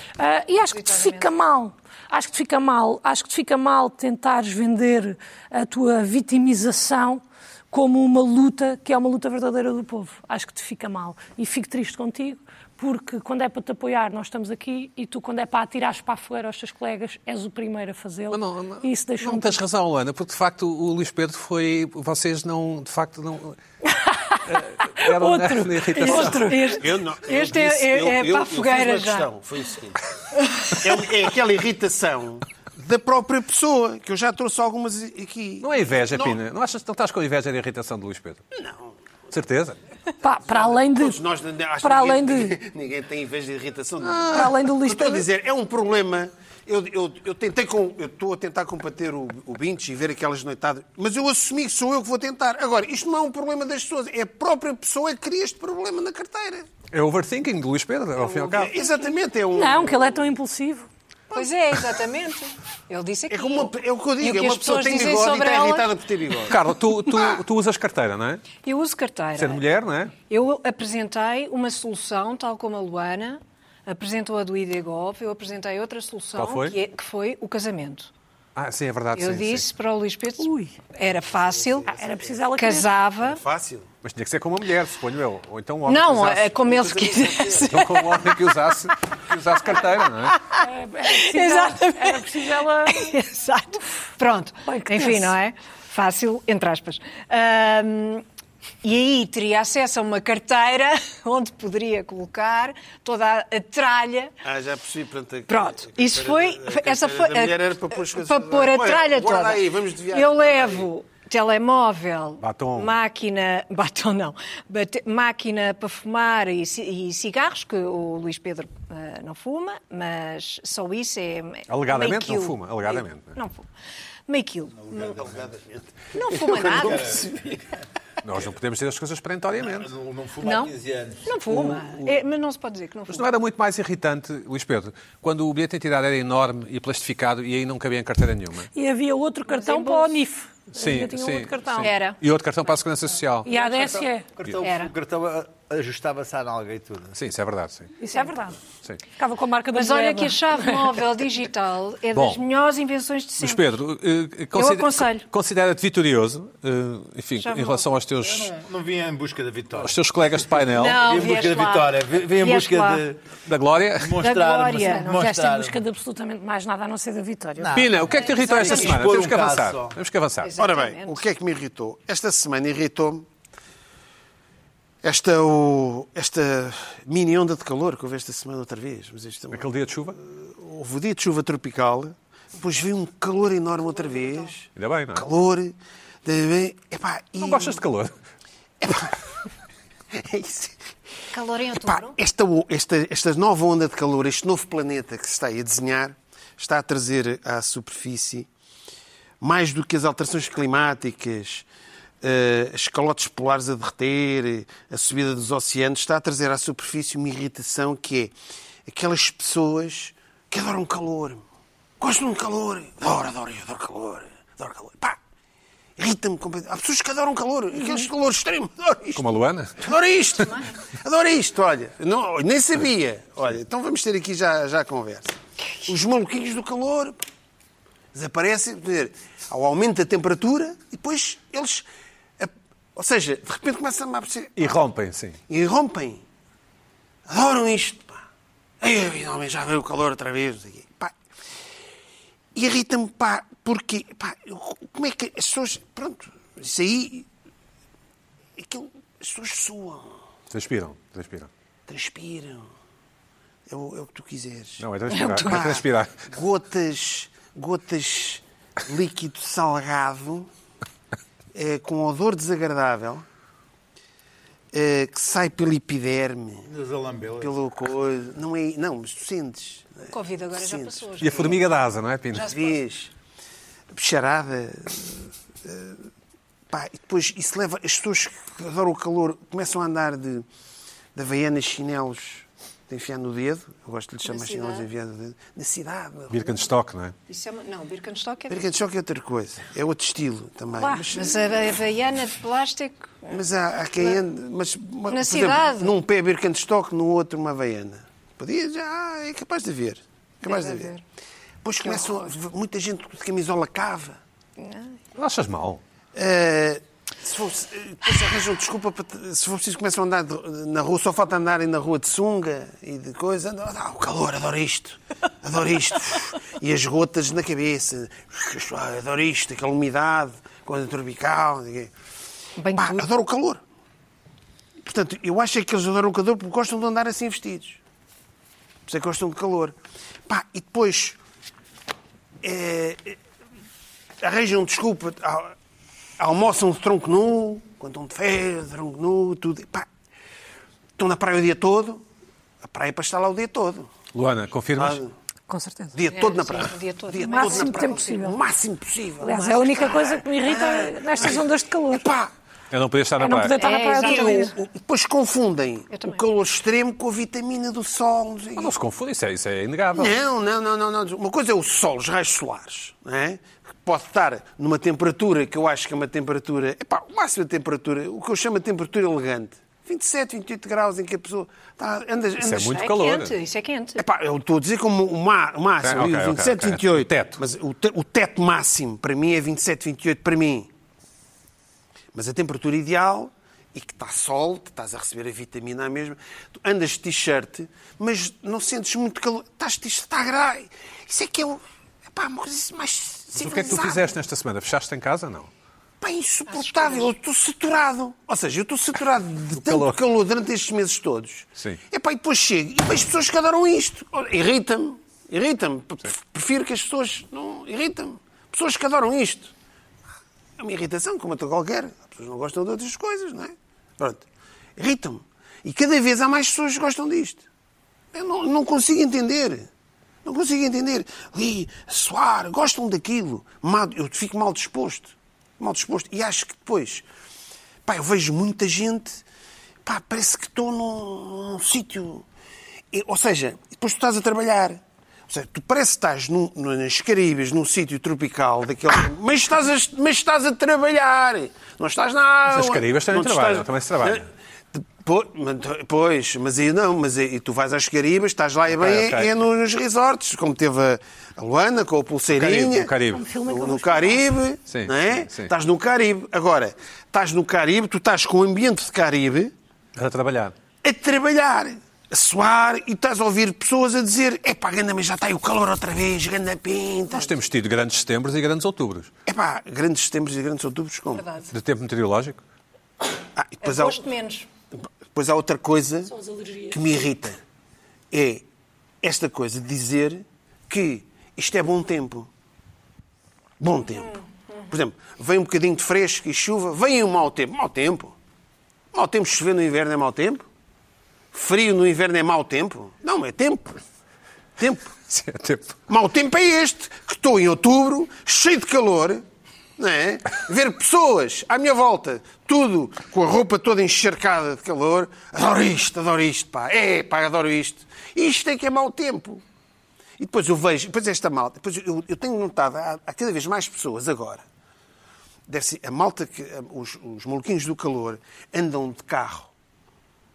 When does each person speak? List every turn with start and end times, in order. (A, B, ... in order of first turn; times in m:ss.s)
0:00.2-0:19.6 A
0:00.7-0:01.3 B
0:18.3-0:23.6 C
0:24.3-0:26.8 A
0:24.4-0:26.5 C
0:26.0-0:29.3 B
0:26.7-0:30.0 D
0:30.5-0:30.8 B
0:30.7-0:36.4 D
0:35.6-0:38.4 C
0:38.5-0:38.9 D
0:39.3-0:39.8 C
0:40.2-0:41.2 A
0:40.4-0:56.7 D
0:41.8-0:42.6 A
0:44.0-0:44.6 C
0:44.3-0:45.2 A
0:56.9-0:58.7 C
0:58.2-0:59.1 B
0:58.5-1:00.3 D
0:59.5-1:00.9 A
1:01.3-1:06.0 B
1:03.3-1:06.6 D
1:06.5-1:08.4 C
1:08.6-1:09.6 B
1:09.4-1:10.1 C
1:10.3-1:18.1 B
1:16.4-1:16.8 C
1:18.6-1:19.7 C
1:19.1-1:21.9 B
1:20.4-1:20.8 A
1:21.2-1:22.4 D
1:21.9-1:22.9 A
1:22.6-1:23.4 B
1:23.2-1:23.9 D
1:24.0-1:26.7 C
1:25.9-1:28.5 B
1:26.7-1:27.7 D
1:27.6-1:30.4 C
1:30.3-1:38.2 B
1:30.6-1:33.1 A
1:34.6-1:35.3 A
1:38.8-1:44.3 B
1:44.4-1:50.9 D
1:45.5-2:03.7 B
1:52.4-1:53.0 C
2:01.7-2:03.4 C
2:04.3-2:05.2 B
2:04.9-2:05.4 E
2:05.1-2:07.6 D
2:06.1-2:07.2 B
2:06.9-2:07.6 E
2:08.2-2:09.9 C
2:09.6-2:11.3 E
2:10.4-2:13.3 B
2:11.5-2:12.1 C
2:13.1-2:18.7 C
2:18.7-2:21.9 A
2:19.5-2:20.2 B
2:20.7-2:23.5 C
2:21.8-2:22.2 B
2:23.4-2:24.3 A
2:23.4-2:27.2 E
2:24.6-2:24.9 B
2:27.1-2:27.9 C
2:28.0-2:28.6 A
2:29.2-2:31.0 A
2:29.7-2:33.7 B
2:32.1-2:32.4 C
2:33.4-2:38.5 C
2:34.5-2:35.2 B
2:37.4-2:37.9 B
2:38.2-2:39.9 E
2:39.8-2:41.0 C
2:40.7-2:43.0 B
2:40.9-2:43.2 E
2:43.4-2:44.2 C
2:44.0-2:45.8 E
2:44.2-2:45.2 B
2:44.8-2:47.8 A
2:47.6-2:50.0 E
2:47.7-2:50.5 C
2:48.1-2:49.0 B
2:50.4-2:51.2 B
2:50.6-2:53.3 D
2:55.0-2:59.7 D
2:59.5-3:00.2 C
3:00.2-3:07.8 D
3:04.1-3:04.5 B
3:04.8-3:05.2 C
3:07.4-3:08.1 C
3:08.8-3:09.1 D
3:10.1-3:10.8 D
3:11.3-3:12.2 B
3:11.8-3:18.5 D
3:19.4-3:21.6 D
3:22.2-3:28.3 D
3:28.9-3:31.4 D
3:32.0-3:35.2 D
3:36.0-3:47.2 D
3:39.1-3:39.9 C
3:48.1-3:51.9 D
3:52.4-3:54.8 D
3:54.6-3:55.4 C
3:55.5-3:56.2 D
3:57.3-3:58.2 D
3:58.8-4:01.1 D
4:02.5-4:07.3 D
4:08.6-4:10.2 D
4:10.5-4:11.5 C
4:11.9-4:12.7 D
4:13.7-4:14.8 D
4:14.8-4:16.3 C
4:15.1-4:15.7 B
4:15.4-4:20.5 D
4:21.5-4:23.2 D
4:24.7-4:26.7 D
4:26.7-4:27.5 E
4:27.4-4:31.5 D
4:30.1-4:31.6 B
4:31.2-4:32.5 C
4:32.3-4:32.8 B
4:32.4-4:33.1 D
4:33.9-4:36.0 D
4:36.7-4:40.5 D
4:41.1-4:46.6 D
4:44.2-4:44.9 B
4:46.3-4:47.1 C
4:47.3-4:48.6 B
4:48.5-4:51.5 D
4:50.8-4:51.1 A
4:51.1-4:53.4 B
4:53.3-5:00.9 D
4:55.1-4:55.9 B
5:00.4-5:01.0 B
5:01.6-5:04.2 D
5:01.8-5:02.2 B
5:04.6-5:05.0 B
5:05.2-5:05.8 C
5:06.1-5:21.9 D
5:22.6-5:23.0 B
5:22.7-5:23.6 D
5:24.8-5:27.8 D
5:28.9-5:29.8 D
5:30.3-5:31.2 D
5:32.4-5:33.2 D
5:34.2-5:35.5 D
5:36.2-5:39.9 D
5:41.0-5:42.0 D
5:42.6-5:43.9 D
5:44.1-5:45.0 C
5:44.8-5:45.1 D
5:45.5-5:46.0 A
5:45.9-5:52.3 D
5:46.1-5:48.3 B
5:47.2-5:48.4 A
5:49.2-5:52.1 A
5:52.7-5:53.6 C
5:53.2-5:54.5 A
5:53.6-5:54.5 B
5:54.0-5:58.7 D
5:55.9-5:56.2 B
5:58.6-6:00.2 C
5:59.9-6:12.8 D
6:12.4-6:13.3 C
6:12.4-6:14.0 B
6:14.0-6:20.7 D
6:15.8-6:17.4 C
6:22.1-6:34.1 D
6:33.3-6:35.5 C
6:36.0-6:49.5 D
6:36.5-6:37.1 B
6:39.5-6:39.9 C
6:50.6-6:54.2 D
6:54.8-6:57.4 D
6:58.1-6:59.7 D
7:00.2-7:07.0 D
7:07.8-7:09.2 D
7:09.8-7:12.2 D
7:12.9-7:32.9 D
7:22.5-7:24.2 C
7:28.7-7:29.3 C
7:32.3-7:33.2 C
7:33.1-7:34.3 A
7:33.5-7:39.5 D
7:34.7-7:35.5 C
7:40.0-7:40.5 C
7:40.8-7:47.3 D
7:47.1-7:49.1 C
7:49.2-7:51.2 D
7:51.1-7:51.5 B
7:51.5-7:52.4 C
7:53.3-7:54.1 D
7:53.6-7:54.5 B
7:54.7-7:56.1 D
7:56.1-7:56.8 A
7:56.7-7:57.4 D
7:58.1-7:58.4 D
7:59.0-8:02.3 D
8:03.6-8:08.1 D
8:08.9-8:10.4 D
8:11.3-8:13.8 D
8:14.6-8:15.0 D
8:15.1-8:15.8 C
8:15.9-8:19.2 D
8:19.8-8:29.4 D
8:30.2-8:34.4 D
8:35.5-8:39.5 D